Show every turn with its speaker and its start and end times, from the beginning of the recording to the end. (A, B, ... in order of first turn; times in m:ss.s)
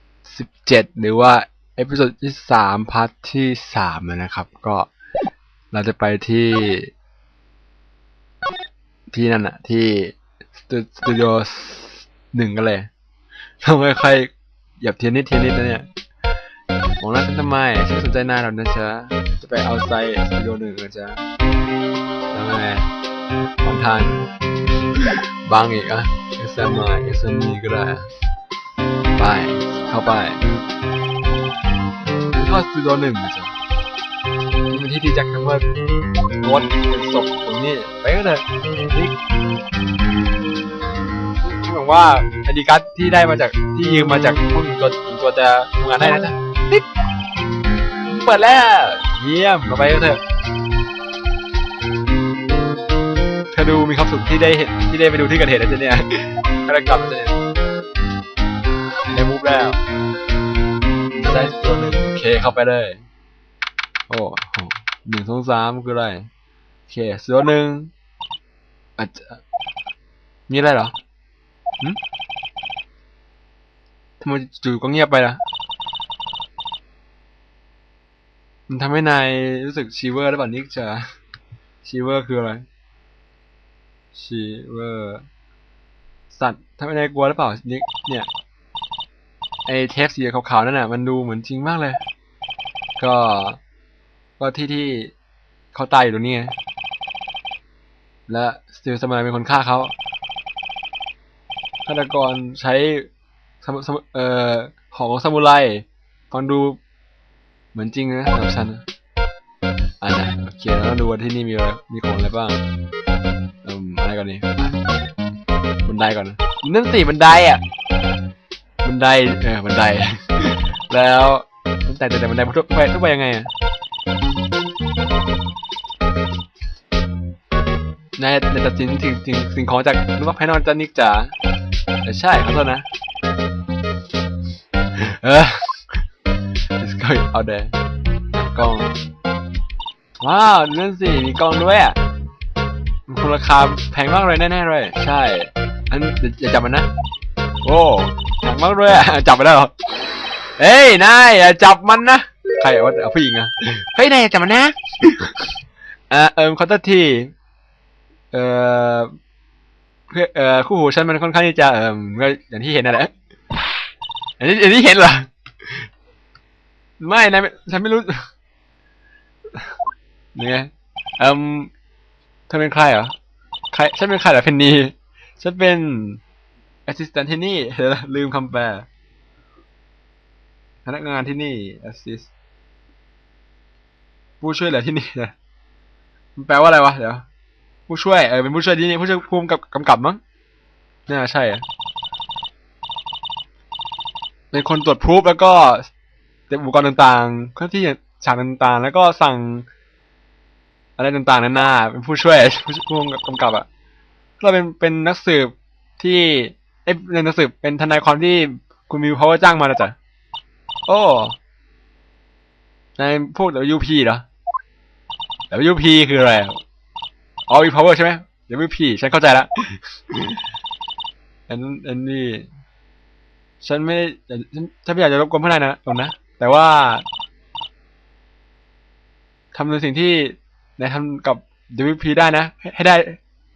0:00.3-0:04.9 A
0:05.7-0:06.9 A
0:09.1-0:12.9 A
0:13.6-0:15.9 A
0:17.0-0:21.2 A
0:22.3-0:22.9 A
0:23.6-0:24.3 A
0:25.0-0:28.1 A
0:29.2-0:30.4 A
0:32.3-0:33.6 A
0:34.7-0:35.7 A
0:36.4-0:39.1 A
0:41.4-0:46.9 A
0:48.0-0:50.2 A
0:53.5-0:57.4 A
0:59.0-0:59.8 A
1:01.1-1:03.0 A
1:04.1-1:06.3 A
1:06.9-1:07.9 A
1:09.0-1:09.4 A
1:10.5-1:11.0 A
1:14.2-1:15.4 A
1:18.7-1:21.1 A
1:21.8-1:22.7 A
1:24.1-1:25.2 A
1:26.3-1:28.3 A
1:29.7-1:32.0 A
1:33.0-1:33.6 A
1:34.4-1:35.1 A
1:35.7-1:36.6 A
1:38.3-1:39.9 A
1:41.8-1:43.1 A
1:43.6-1:46.8 A
1:47.7-1:48.8 A
1:50.0-1:52.6 A
1:53.6-1:54.8 A
1:55.8-1:57.6 A
1:58.8-2:03.5 A
2:08.2-2:11.4 A
2:12.0-2:12.9 A
2:14.9-2:16.0 A
2:16.8-2:17.8 A
2:18.3-2:19.0 A
2:20.2-2:22.0 A
2:23.1-2:26.9 A
2:27.6-2:29.7 A
2:30.6-2:35.5 A
2:36.1-2:37.3 A
2:38.3-2:39.1 A
2:40.1-2:43.1 A
2:44.4-2:45.9 A
2:47.0-2:48.3 A
2:50.4-2:51.7 A
2:52.5-2:53.1 A
2:53.7-2:56.2 A
2:56.9-2:58.9 A
3:00.9-3:02.3 A
3:04.4-3:05.3 A
3:06.4-3:07.2 A
3:07.9-3:10.2 A
3:11.1-3:11.6 A
3:14.5-3:15.9 A
3:16.5-3:19.7 A
3:21.0-3:23.7 A
3:24.4-3:30.0 A
3:30.9-3:31.4 A
3:33.0-3:34.2 A
3:35.5-3:36.6 A
3:37.5-3:40.4 A
3:41.5-3:42.5 A
3:43.6-3:47.0 A
3:49.5-3:53.2 A